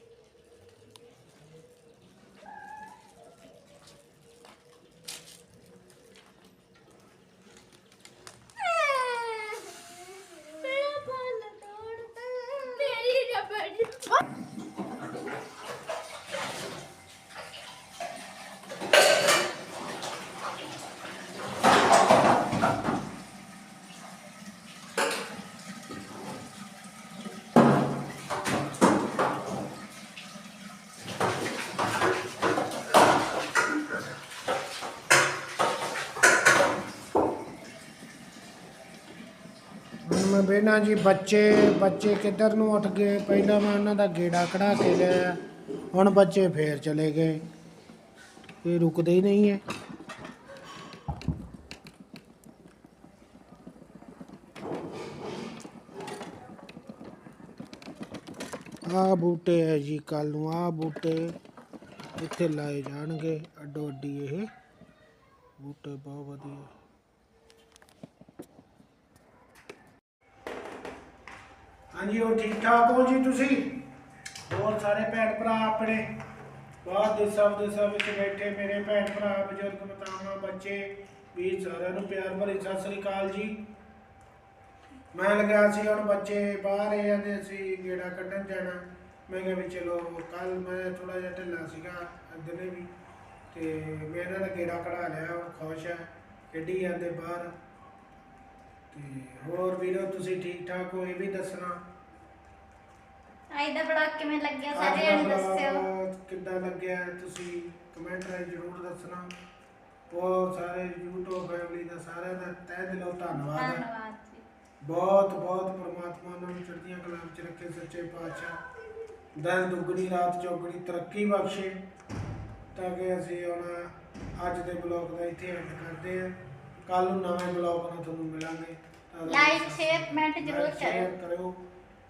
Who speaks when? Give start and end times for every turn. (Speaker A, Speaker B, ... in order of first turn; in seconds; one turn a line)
Speaker A: 8.6-13.1
Speaker B: 12.8-14.1
Speaker C: 40.0-45.4
Speaker C: 45.9-47.4
Speaker C: 48.6-49.6
Speaker C: 58.8-61.3
Speaker C: 62.2-64.5
Speaker C: 65.6-66.7
Speaker C: 71.9-73.7
Speaker C: 74.5-76.0
Speaker C: 76.8-83.5
Speaker C: 85.1-92.9
Speaker C: 93.5-97.5
Speaker C: 98.9-101.7
Speaker B: 103.5-105.8
Speaker C: 104.7-109.3
Speaker C: 110.1-113.8
Speaker B: 113.4-114.4
Speaker C: 114.8-118.6
Speaker C: 119.4-121.7
Speaker C: 122.7-126.3
Speaker C: 126.9-131.6
Speaker B: 129.3-131.1